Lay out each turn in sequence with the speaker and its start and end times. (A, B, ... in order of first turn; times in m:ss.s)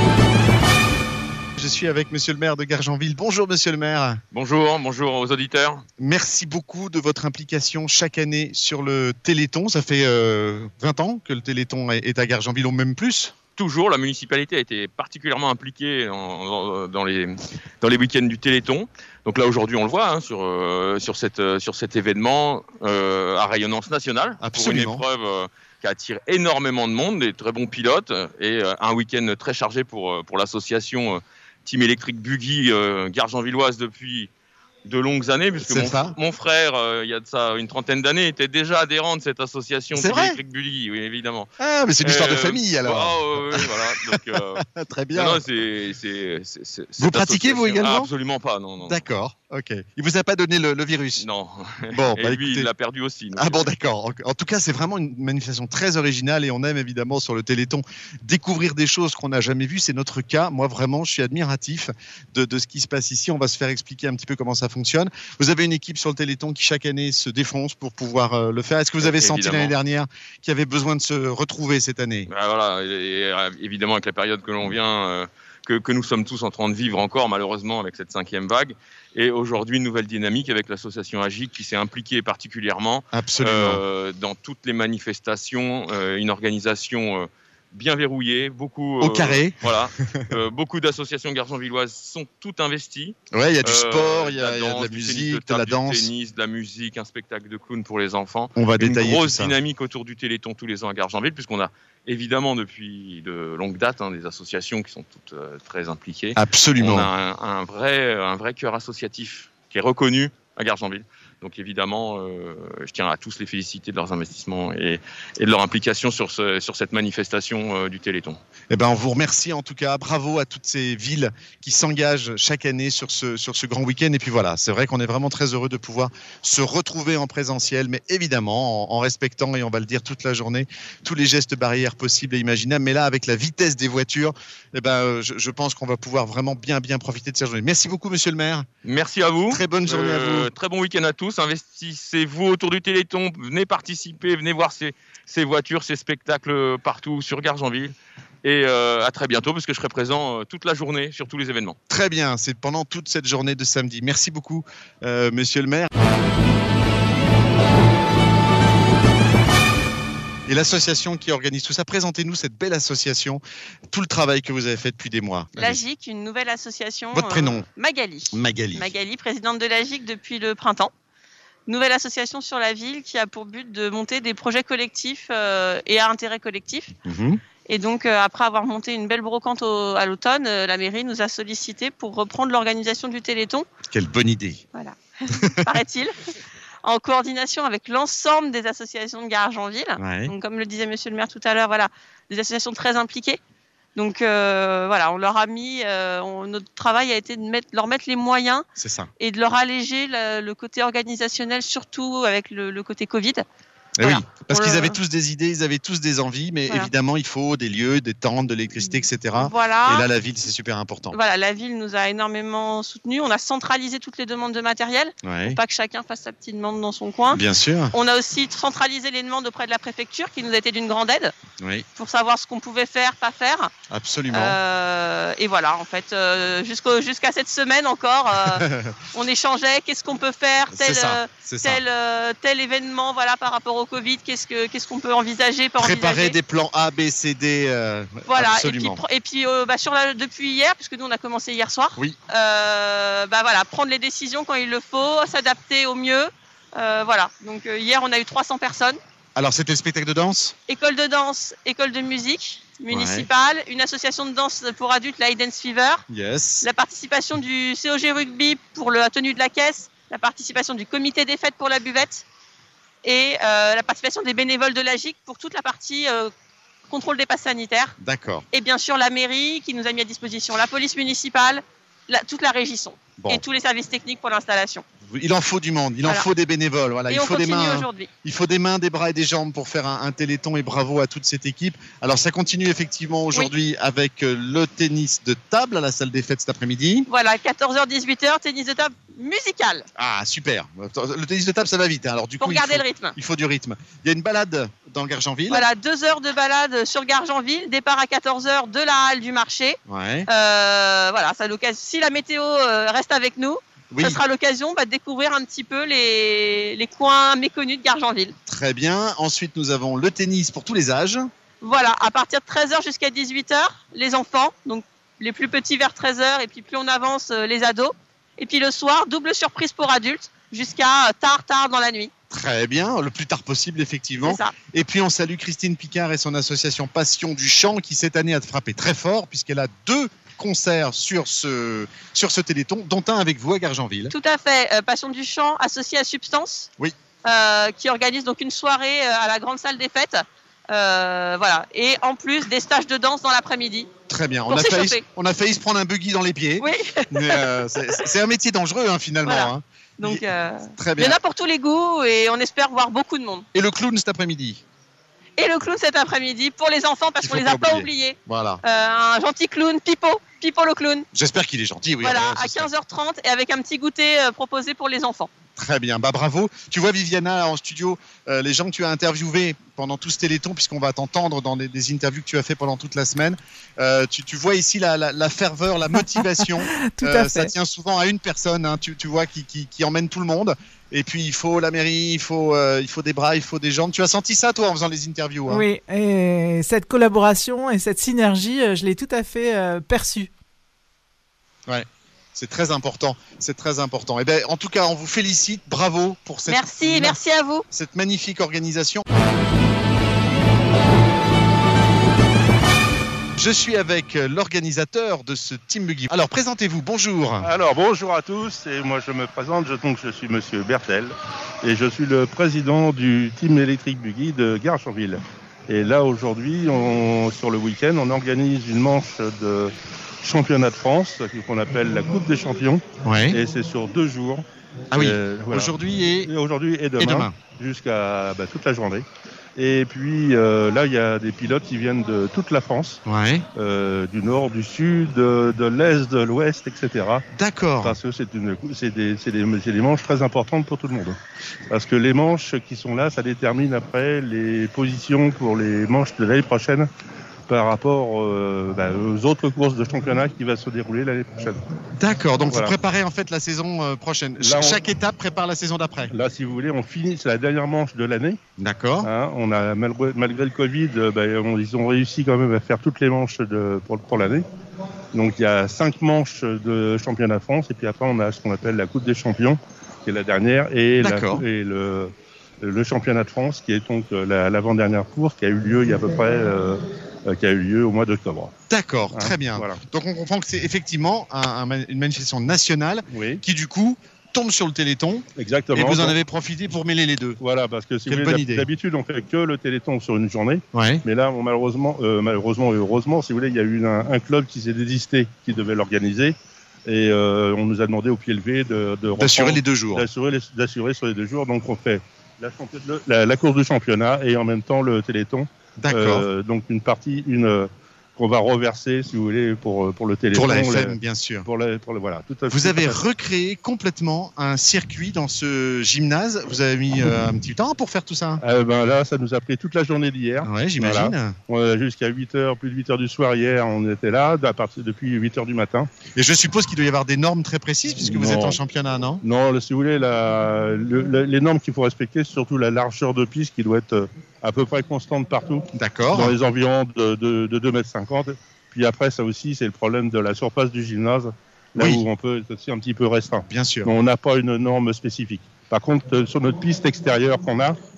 0:01.6-0:04.2 A
0:04.3-0:05.8 B
0:06.0-0:13.4 A
0:13.6-0:34.3 B
0:24.4-0:25.0 A
0:34.9-0:41.5 B
0:35.6-0:36.2 A
0:39.9-0:40.4 A
0:41.6-0:45.4 A
0:42.0-0:44.6 B
0:45.1-0:49.0 B
0:47.0-0:48.1 A
0:48.8-0:51.3 A
0:51.2-0:53.7 B
0:51.9-0:52.7 A
0:53.4-1:12.3 A
1:09.0-1:09.8 B
1:12.3-1:58.4 B
1:23.1-1:23.8 A
1:29.0-1:30.3 A
1:33.3-1:36.1 A
1:38.6-1:39.6 A
1:46.4-1:47.1 A
1:58.7-2:18.7 A
2:18.8-2:31.8 B
2:19.5-2:20.5 A
2:31.9-2:35.9 A
2:40.5-2:45.8 A
2:45.6-2:50.9 C
2:47.1-2:47.7 A
2:48.3-2:48.9 A
2:51.7-2:57.0 C
2:57.1-2:57.4 A
2:57.7-3:03.7 C
3:03.9-3:04.6 A
3:04.7-3:06.2 C
3:06.8-3:13.4 C
3:10.0-3:10.3 A
3:14.0-3:18.6 C
3:18.8-3:19.1 A
3:19.2-3:23.4 C
3:24.0-3:31.2 A
3:24.0-3:25.0 C
3:29.3-3:30.1 C
3:31.1-3:41.3 C
3:35.2-3:35.6 A
3:37.3-3:37.9 A
3:41.6-3:41.8 A
3:42.0-3:43.7 C
3:43.9-3:44.6 A
3:44.3-3:56.4 C
3:48.5-3:49.0 A
3:50.7-3:51.8 A
3:55.8-3:59.0 A
3:58.3-4:09.0 C
4:09.4-4:10.6 A
4:10.7-4:16.0 C
4:12.9-4:13.3 A
4:16.1-4:16.7 A
4:16.6-4:22.2 C
4:23.0-4:26.3 C
4:26.9-4:28.0 C
4:28.0-4:28.4 A
4:28.5-4:34.8 C
4:35.1-4:47.1 A
4:37.1-4:38.1 C
4:47.1-4:49.9 C
4:50.0-4:55.7 A
4:52.4-4:53.2 C
4:55.5-5:08.4 C
4:59.9-5:00.3 A
5:03.9-5:04.2 A
5:08.5-5:11.3 A
5:11.6-5:22.1 C
5:22.3-5:34.1 A
5:24.2-5:24.5 C
5:34.1-5:36.7 C
5:37.2-5:43.9 C
5:44.1-5:50.2 A
5:44.5-5:45.0 C
5:46.6-5:47.6 C
5:49.2-5:53.5 C
5:50.8-5:51.2 A
5:53.5-5:54.6 A
5:55.4-6:01.1 C
5:57.2-5:58.6 A
6:01.1-6:02.7 A
6:02.0-6:05.3 C
6:05.6-6:25.7 A
6:17.0-6:17.5 D
6:25.5-6:30.3 D
6:32.4-6:37.2 A
6:36.5-6:37.6 C
6:37.7-6:39.0 A
6:43.4-6:47.5 A
6:47.4-7:04.4 E
7:03.0-7:03.4 A
7:04.9-7:06.3 A
7:05.0-7:09.0 E
7:07.0-7:07.4 A
7:09.6-7:13.0 E
7:13.1-7:13.5 A
7:13.6-7:17.3 E
7:17.3-7:18.0 A
7:17.8-7:21.2 E
7:21.7-7:26.9 E
7:27.5-7:31.6 E
7:32.0-7:36.1 A
7:34.4-7:34.8 E
7:36.1-7:38.4 E
7:38.6-7:39.1 A
7:39.0-7:44.4 E
7:45.1-7:58.5 E
7:51.0-7:51.4 A
7:58.7-8:07.4 A
7:59.1-7:59.8 E
8:03.1-8:03.4 E
8:05.4-8:06.2 E
8:07.4-8:16.4 E
8:08.1-8:08.7 A
8:10.7-8:11.0 A
8:16.9-8:33.0 E
8:19.2-8:20.1 A
8:25.8-8:26.3 A
8:30.3-8:31.5 A
8:32.5-8:38.4 A
8:38.4-8:45.9 E
8:40.4-8:41.4 A
8:46.2-8:49.2 A
8:48.0-8:48.6 E
8:49.2-9:07.8 E
8:55.8-8:56.4 A
9:01.8-9:02.0 A
9:03.5-9:03.9 A